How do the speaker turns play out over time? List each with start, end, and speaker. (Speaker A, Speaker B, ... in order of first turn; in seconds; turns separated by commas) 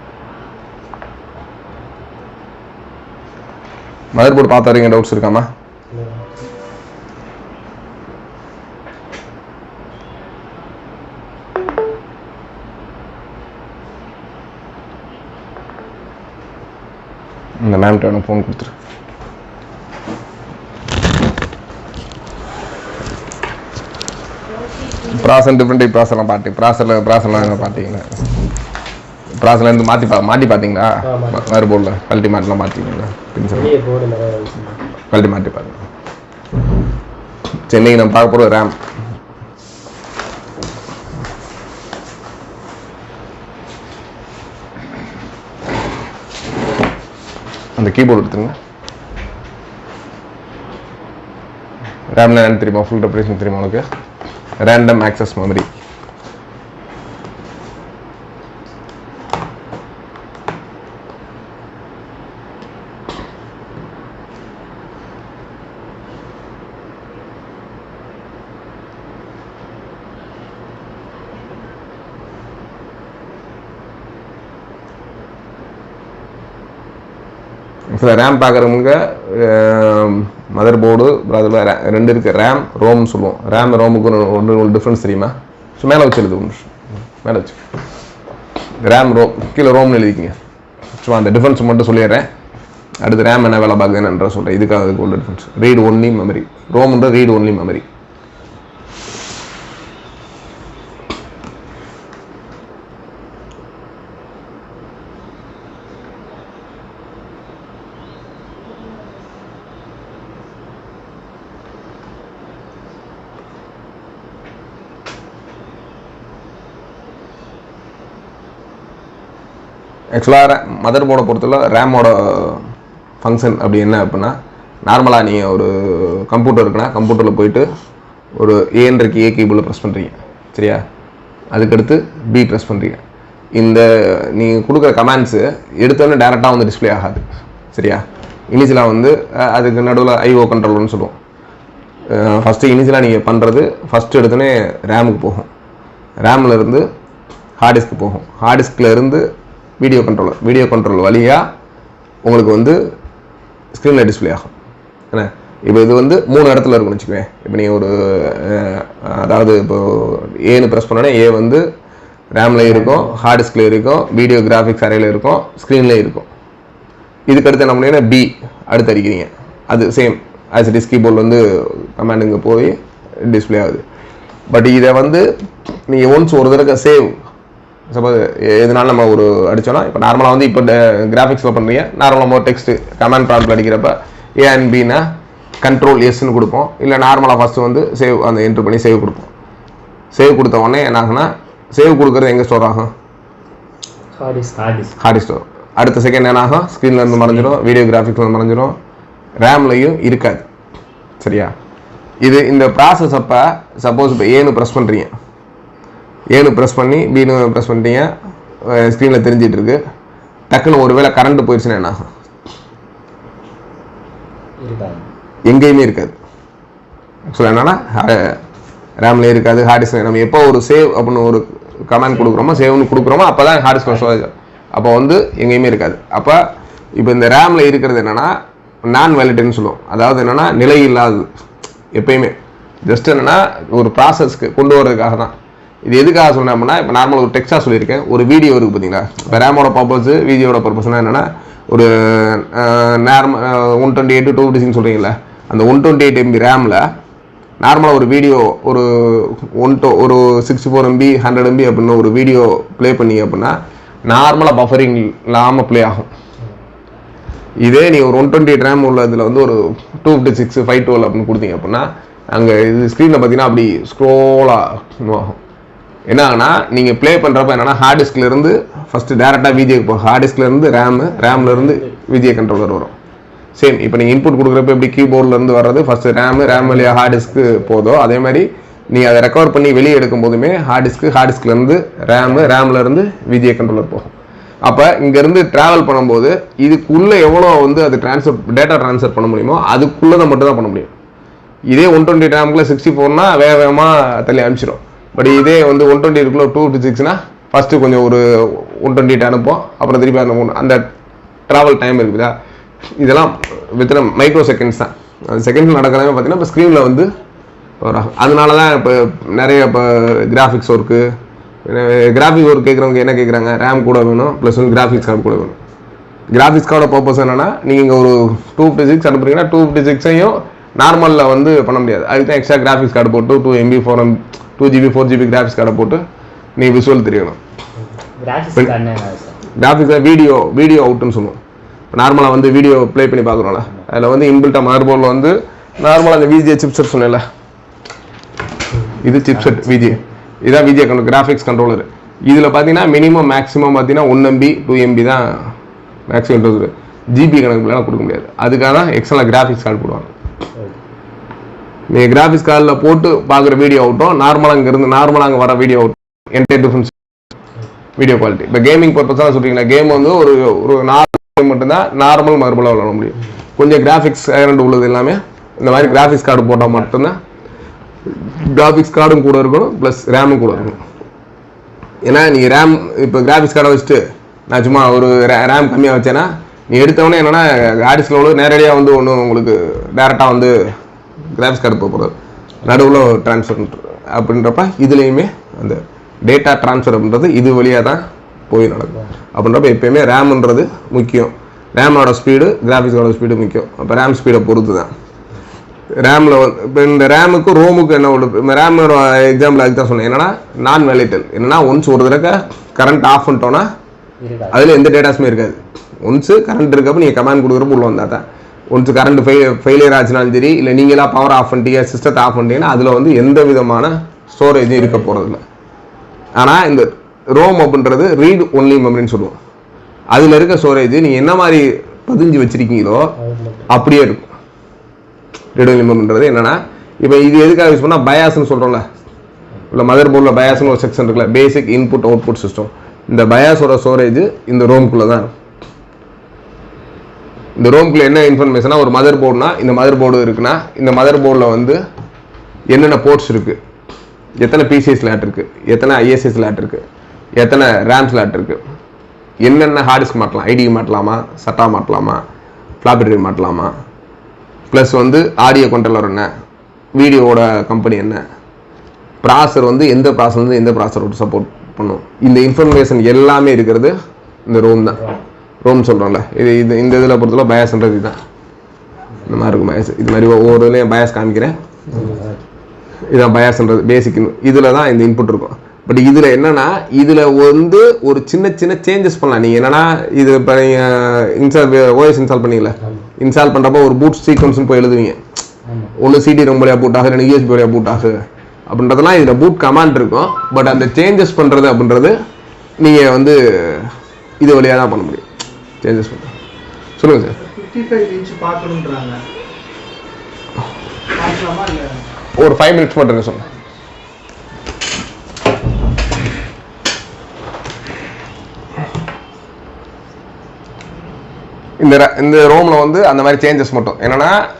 Speaker A: 4.1-5.5, Speaker B: 5.9-6.2, Speaker A: 17.6-18.7, Speaker A: 25.0-28.3, Speaker B: 27.3-27.7, Speaker A: 29.4-33.7, Speaker B: 31.0-31.6, Speaker B: 33.5-34.8, Speaker A: 35.1-35.8, Speaker A: 37.7-38.8, Speaker A: 47.8-48.5, Speaker A: 52.1-53.9, Speaker A: 54.6-55.7, Speaker A: 77.9-87.6, Speaker A: 88.8-90.4, Speaker A: 90.9-92.3, Speaker A: 93.0-97.8, Speaker A: 120.1-122.6, Speaker A: 123.2-127.7, Speaker A: 128.3-130.8, Speaker A: 131.5-133.0, Speaker A: 133.5-141.2, Speaker A: 142.1-145.5, Speaker A: 146.2-146.9, Speaker A: 147.6-149.3, Speaker A: 149.8-151.5, Speaker A: 152.2-152.8, Speaker A: 153.7-154.5, Speaker A: 155.1-161.7, Speaker A: 162.3-166.3, Speaker B: 162.6-163.2, Speaker A: 167.3-173.8, Speaker A: 174.5-175.3, Speaker A: 175.9-177.2, Speaker A: 177.9-185.0, Speaker A: 185.6-189.3, Speaker A: 190.1-192.9, Speaker B: 194.2-194.9, Speaker A: 195.0-198.8, Speaker A: 199.4-200.5, Speaker A: 201.2-201.5, Speaker A: 202.2-205.1, Speaker A: 206.3-208.1, Speaker A: 208.6-209.8, Speaker A: 210.5-212.0, Speaker B: 214.6-215.1, Speaker A: 215.5-216.2, Speaker A: 217.3-218.4, Speaker A: 219.0-226.4, Speaker A: 226.9-228.3, Speaker A: 228.8-231.3, Speaker A: 231.9-235.3, Speaker A: 235.8-246.9, Speaker A: 247.6-256.1, Speaker A: 257.6-265.4, Speaker A: 266.1-272.9, Speaker B: 271.3-271.9, Speaker A: 273.6-284.1, Speaker B: 276.4-277.6, Speaker B: 282.1-282.5, Speaker A: 284.6-290.9, Speaker A: 291.7-300.8, Speaker A: 301.5-302.3, Speaker A: 303.0-307.1, Speaker A: 307.8-311.1, Speaker A: 311.6-315.6, Speaker A: 316.3-326.0, Speaker A: 326.6-327.4, Speaker B: 327.8-329.4, Speaker A: 329.5-331.4, Speaker A: 331.9-337.2, Speaker A: 339.0-345.5, Speaker B: 339.5-339.9, Speaker A: 346.1-350.1, Speaker A: 351.9-356.9, Speaker A: 358.0-367.2, Speaker B: 366.3-366.7, Speaker A: 368.1-370.8, Speaker A: 372.0-380.7, Speaker A: 381.3-382.1, Speaker A: 382.6-394.9, Speaker B: 382.7-383.0, Speaker A: 396.0-403.7, Speaker B: 404.2-404.7, Speaker A: 404.5-415.4, Speaker A: 416.4-419.4, Speaker A: 420.1-423.1, Speaker B: 423.2-423.7, Speaker A: 423.7-424.3, Speaker A: 425.5-428.9, Speaker A: 429.7-435.3, Speaker A: 437.6-441.8, Speaker A: 442.7-443.6, Speaker A: 444.4-446.8, Speaker A: 447.4-448.6, Speaker A: 449.4-452.2, Speaker A: 452.8-453.7, Speaker A: 454.7-456.3, Speaker A: 457.0-458.2, Speaker A: 459.2-463.9, Speaker A: 464.4-465.0, Speaker A: 465.6-468.2, Speaker A: 469.2-472.1, Speaker B: 471.9-472.4, Speaker A: 473.1-485.2, Speaker B: 485.6-485.9, Speaker A: 486.0-492.1, Speaker A: 492.8-495.2, Speaker A: 495.8-496.3, Speaker A: 497.0-497.4, Speaker C: 497.4-499.2, Speaker C: 501.1-502.0, Speaker A: 502.4-503.5, Speaker A: 511.8-514.4